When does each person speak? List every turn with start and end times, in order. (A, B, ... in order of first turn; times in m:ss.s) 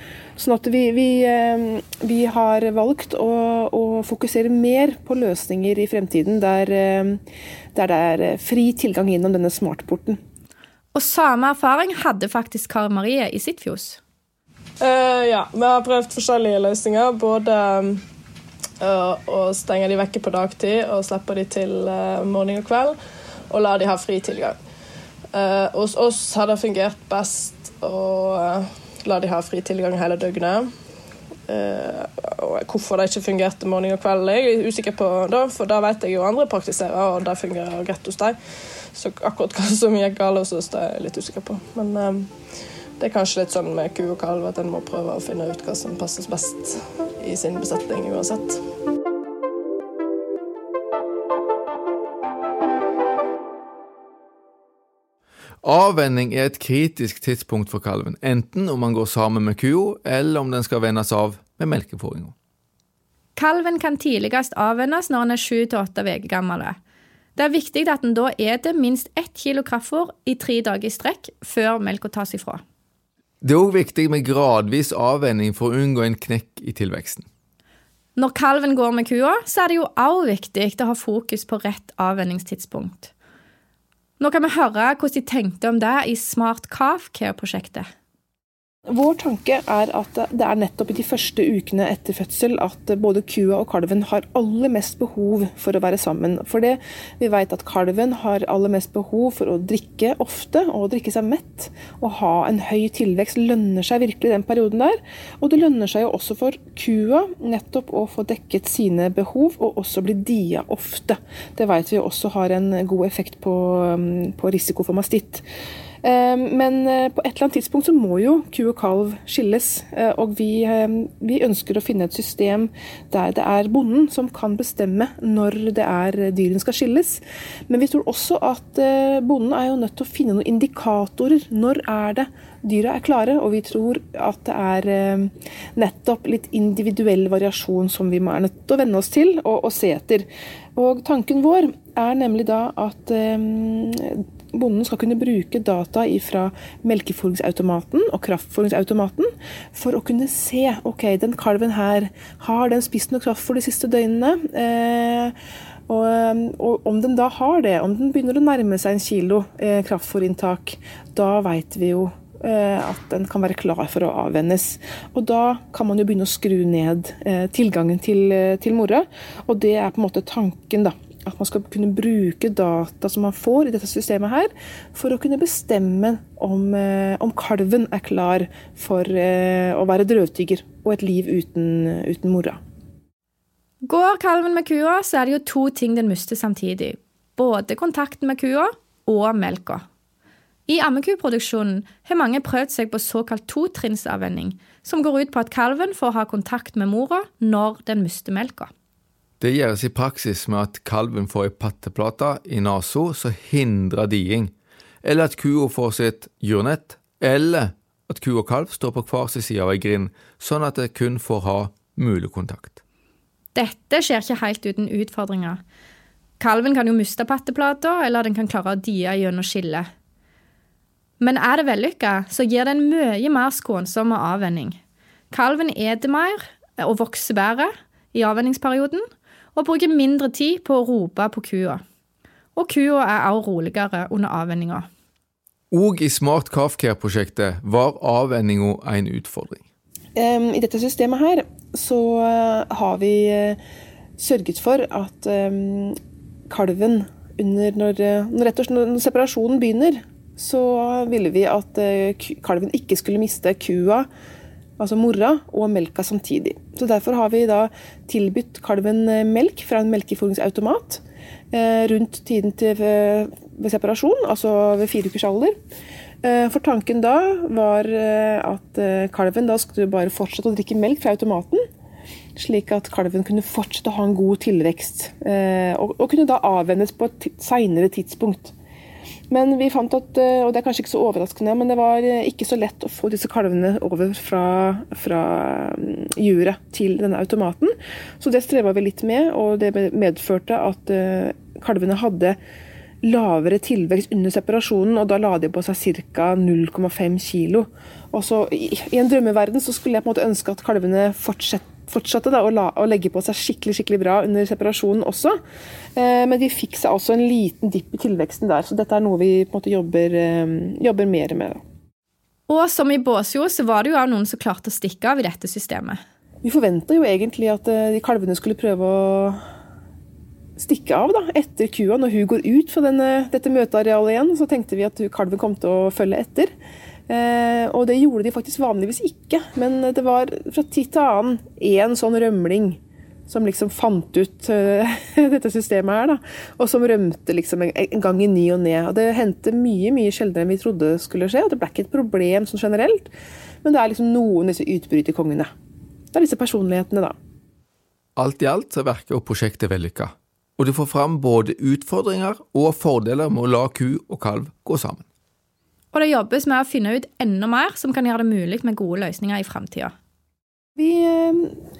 0:00.4-0:07.2 A
0:07.7-0:10.2 A
0:10.9-0:14.0 B
0:14.8-0:18.0 C
0:18.8-0:23.0 C
0:23.5-0:24.6 C
0:25.3-0:30.7 C
0:31.5-0:38.4 C
0:38.9-0:42.3 C
0:43.0-0:48.6 C
0:55.6-1:02.3 D
1:03.4-1:06.8 B
1:07.4-1:12.6 B
1:13.4-1:17.2 D
1:18.2-1:23.1 B
1:24.2-1:27.9 B
1:28.9-1:55.4 A
1:56.0-2:35.3 A
2:35.9-3:02.6 A
3:03.8-3:09.8 B
3:10.7-3:18.7 B
3:19.4-3:24.5 D
3:25.0-3:32.8 D
3:33.5-3:35.6 B
3:36.4-3:39.9 B
3:41.2-3:44.8 B
3:45.3-3:51.8 B
3:52.6-3:54.9 B
3:55.7-3:59.6 D
4:00.2-4:03.6 A
4:04.2-4:06.0 A
4:06.5-4:14.1 A
4:14.8-4:25.6 A
4:26.2-4:31.6 A
4:32.4-4:38.5 A
4:39.3-4:52.4 A
4:53.0-5:05.4 A
5:06.0-5:11.6 A
5:12.5-5:16.0 B
5:16.4-5:19.4 A
5:20.6-5:26.5 A
5:27.1-5:43.1 A
5:43.6-5:45.5 A
5:46.1-5:47.1 A
5:48.2-5:55.0 D
5:55.9-5:59.9 B
6:00.8-6:01.5 A